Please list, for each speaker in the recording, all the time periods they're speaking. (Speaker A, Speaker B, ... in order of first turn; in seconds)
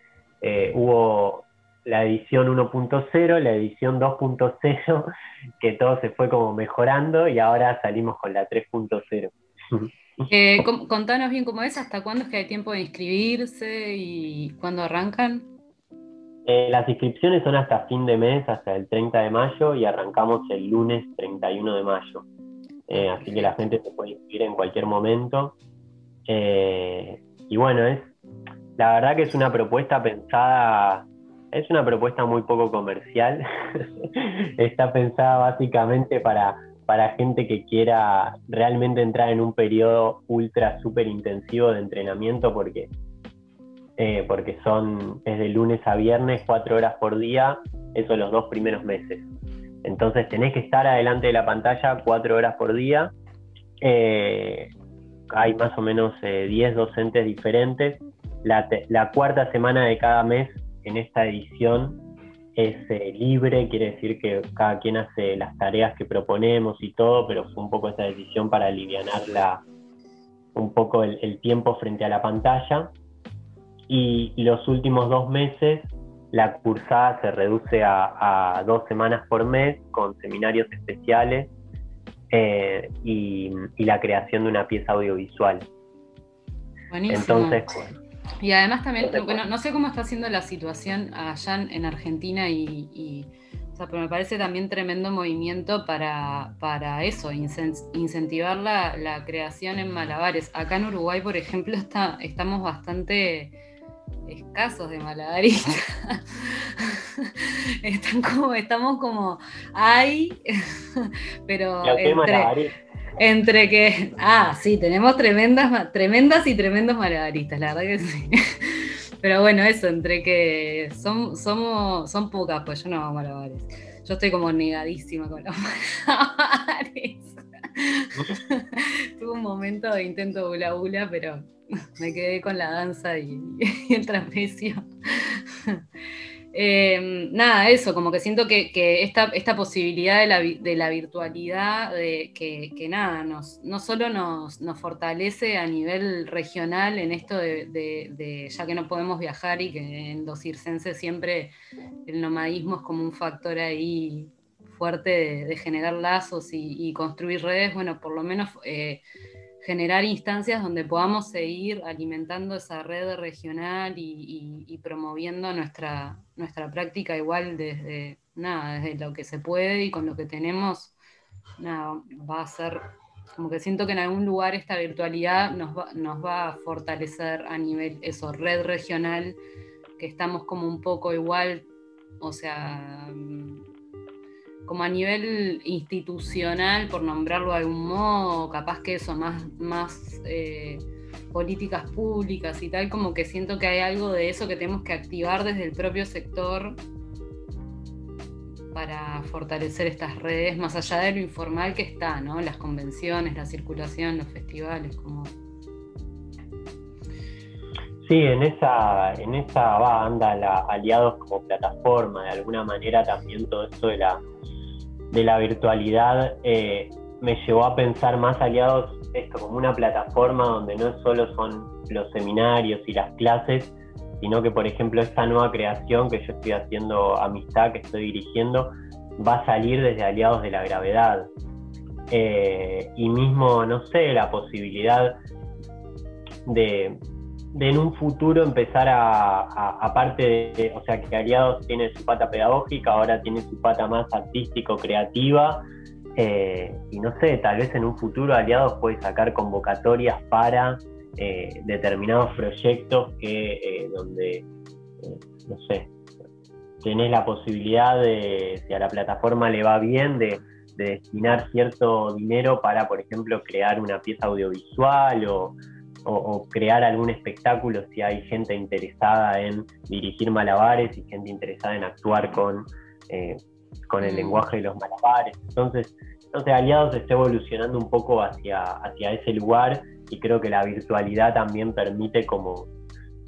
Speaker A: 0.4-9.9, 16.4-22.3, 22.9-25.6, 26.3-28.1, 28.8-42.9, 44.0-49.3, 49.8-53.1, 53.8-54.7, 55.3-62.0, 62.5-69.6, 70.5-72.9, 73.9-81.5, 82.3-85.7, 87.1-87.9, 89.0-89.4, 111.8-112.7, 208.0-214.2, 215.1-231.3, 232.1-235.2, 236.4-237.0, 237.5-245.6, 246.2-254.4, 255.0-255.9, 256.8-282.7
Speaker B: 10.3-15.5, 22.9-23.6, 86.9-87.7, 88.4-103.5, 104.2-110.4, 111.0-112.5, 113.2-135.8, 136.5-151.5, 152.1-159.0, 159.6-170.9, 171.6-179.4, 180.0-181.7, 182.2-183.6, 184.7-196.8, 198.7-205.3, 274.0-274.5